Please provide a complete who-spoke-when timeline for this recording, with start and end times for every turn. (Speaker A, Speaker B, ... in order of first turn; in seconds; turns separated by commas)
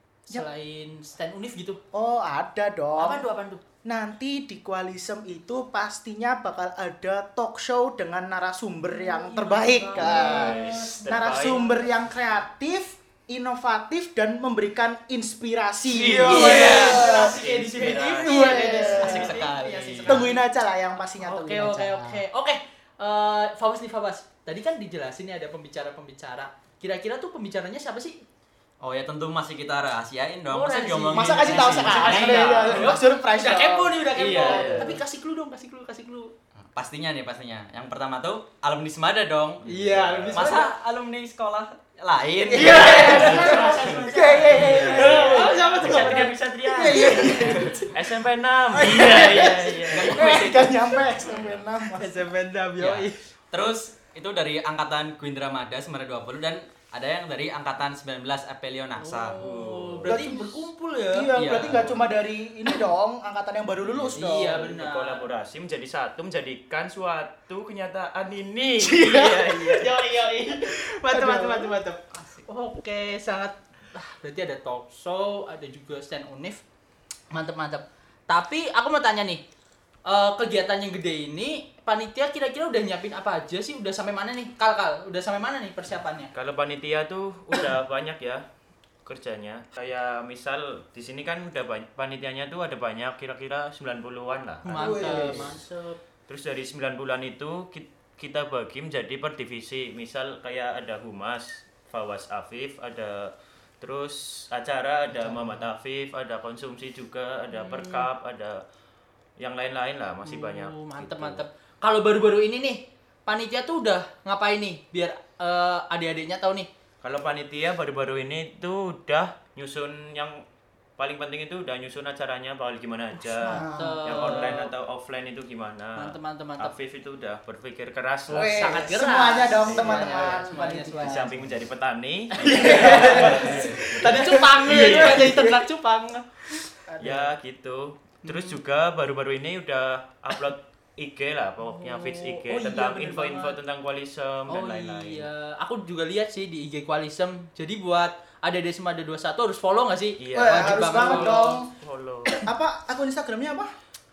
Speaker A: 0.3-1.8, Speaker B: 1.9-3.2, Speaker A: 3.0-3.6, Speaker B: 3.8-17.4, Speaker A: 8.9-11.8, Speaker C: 9.9-11.6, Speaker C: 15.9-19.4, Speaker A: 16.0-20.4, Speaker B: 18.1-19.3, Speaker D: 18.8-20.2, Speaker B: 20.0-22.2, Speaker A: 21.2-28.2, Speaker D: 28.8-32.4, Speaker A: 30.5-36.3, Speaker B: 31.1-35.0, Speaker C: 31.9-32.9, Speaker C: 34.1-35.0, Speaker D: 36.7-39.6, Speaker C: 39.6-40.6, Speaker A: 39.6-40.7, Speaker D: 40.3-43.9, Speaker A: 42.5-47.9, Speaker B: 42.5-47.9, Speaker C: 42.7-44.1, Speaker D: 44.4-45.5, Speaker C: 44.7-50.5, Speaker B: 48.7-52.2, Speaker D: 49.9-51.0, Speaker C: 51.3-51.6, Speaker A: 52.0-53.2, Speaker D: 52.8-60.1, Speaker A: 59.0-61.7, Speaker B: 60.0-64.6, Speaker D: 61.3-62.0, Speaker C: 63.8-70.0, Speaker A: 64.1-65.2, Speaker B: 68.8-69.4, Speaker A: 69.1-76.6, Speaker B: 71.1-71.8, Speaker A: 77.3-79.4, Speaker A: 80.0-86.3, Speaker C: 86.3-88.4, Speaker C: 89.0-95.5, Speaker A: 94.6-96.0, Speaker B: 94.7-95.6, Speaker C: 96.3-108.6, Speaker B: 105.2-105.5, Speaker A: 107.5-108.1, Speaker C: 109.4-111.4, Speaker A: 110.2-116.7, Speaker C: 117.0-120.4, Speaker C: 121.0-128.9, Speaker A: 123.1-124.7, Speaker B: 123.4-124.4, Speaker A: 126.0-126.7, Speaker B: 128.3-131.4, Speaker A: 128.3-131.3, Speaker C: 129.6-135.3, Speaker A: 132.3-136.2, Speaker B: 132.4-135.6, Speaker B: 136.9-137.3, Speaker C: 137.0-145.3, Speaker A: 138.2-138.6, Speaker A: 141.6-143.6, Speaker A: 144.5-151.6, Speaker C: 150.2-152.4, Speaker B: 150.3-151.7, Speaker B: 152.3-153.7